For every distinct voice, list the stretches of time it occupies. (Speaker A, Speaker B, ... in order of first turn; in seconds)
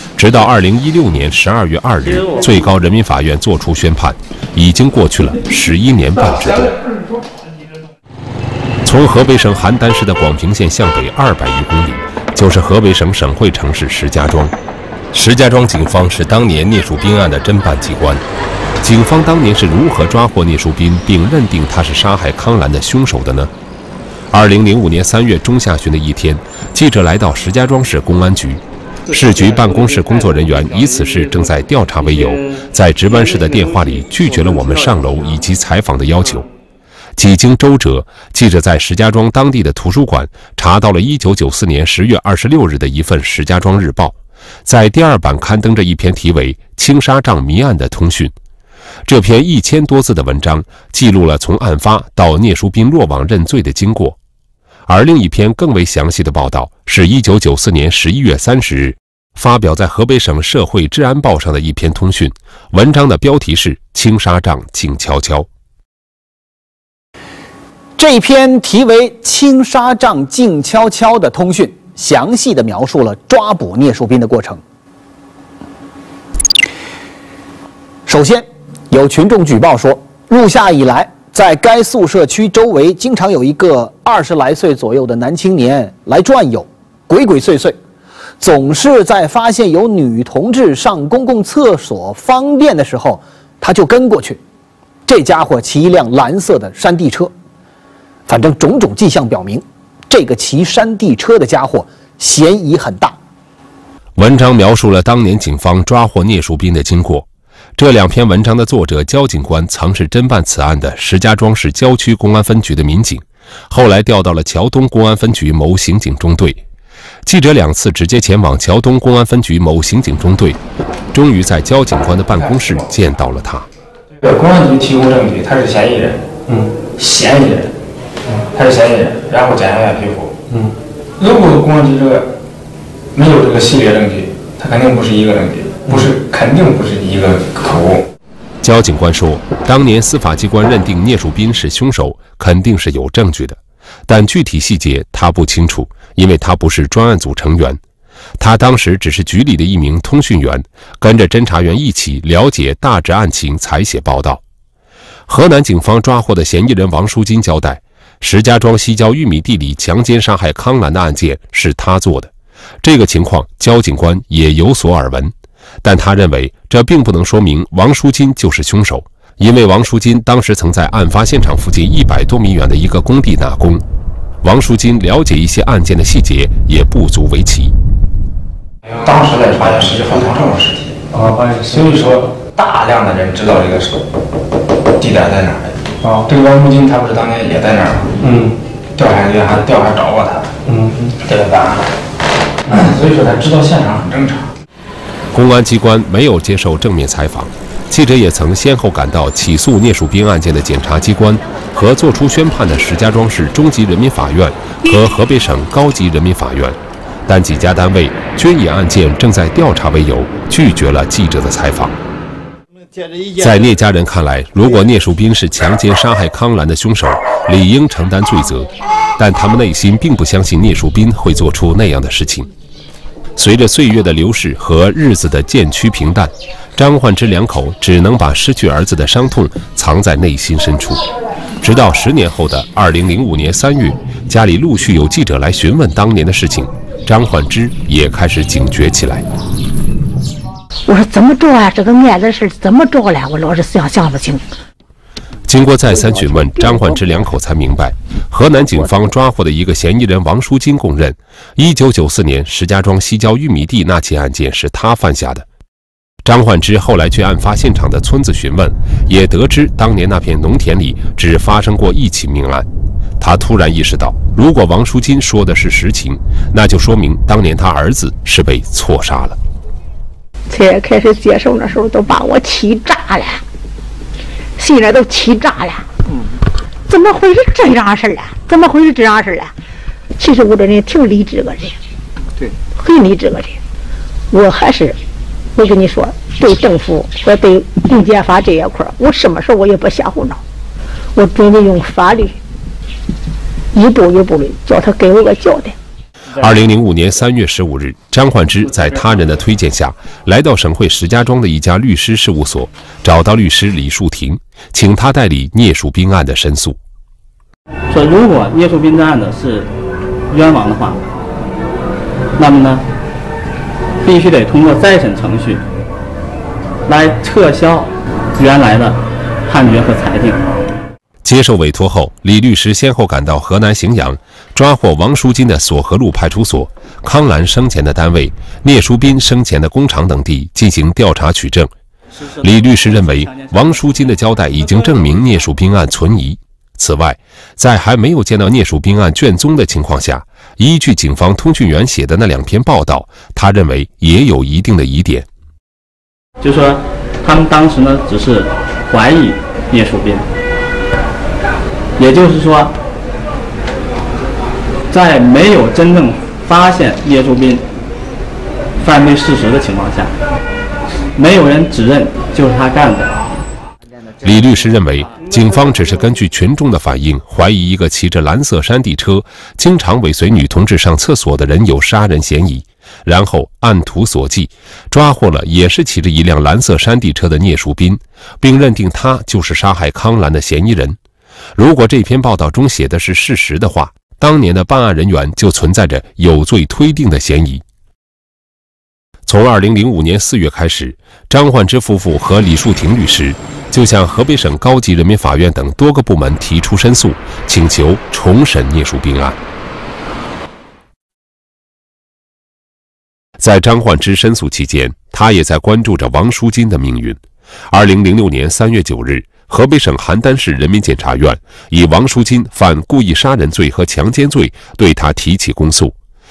Speaker A: 0.2-6.8, 8.8-14.5, 15.1-18.2, 18.8-23.5, 24.3-36.5, 37.2-48.3, 49.0-54.2, 54.9-65.5, 104.2-116.6, 117.2-120.6, 121.1-123.7, 138.6-147.8, 148.4-154.4, 155.3-162.3, 162.8-173.8, 174.4-177.7, 195.3-211.9, 213.4-222.5, 223.4-231.0, 231.6-239.2, 245.5-255.4, 256.2-262.7, 263.2-269.4, 296.4-306.8, 321.2-331.7, 332.4-345.3, 364.2-381.0, 381.6-387.6, 389.2-399.4, 403.4-415.9
Speaker B: 68.0-74.6, 78.1-87.8, 88.4-94.4, 95.0-97.3, 98.3-103.2
Speaker C: 124.2-127.7, 128.4-130.6, 131.2-132.3, 133.1-138.1, 178.9-184.0, 185.0-191.9, 192.7-194.5
Speaker D: 240.8-244.4, 245.9-247.1, 248.6-248.9, 270.5-273.4, 274.6-275.9, 276.9-279.5, 280.2-281.8, 282.8-283.6, 284.3-285.0, 285.6-290.4, 291.1-292.4, 293.7-295.7
Speaker E: 307.9-309.7, 310.3-311.0, 312.4-312.8, 314.0-315.6, 316.9-320.6, 346.4-350.3, 352.0-352.7, 354.9-357.6, 358.8-360.1, 361.1-363.2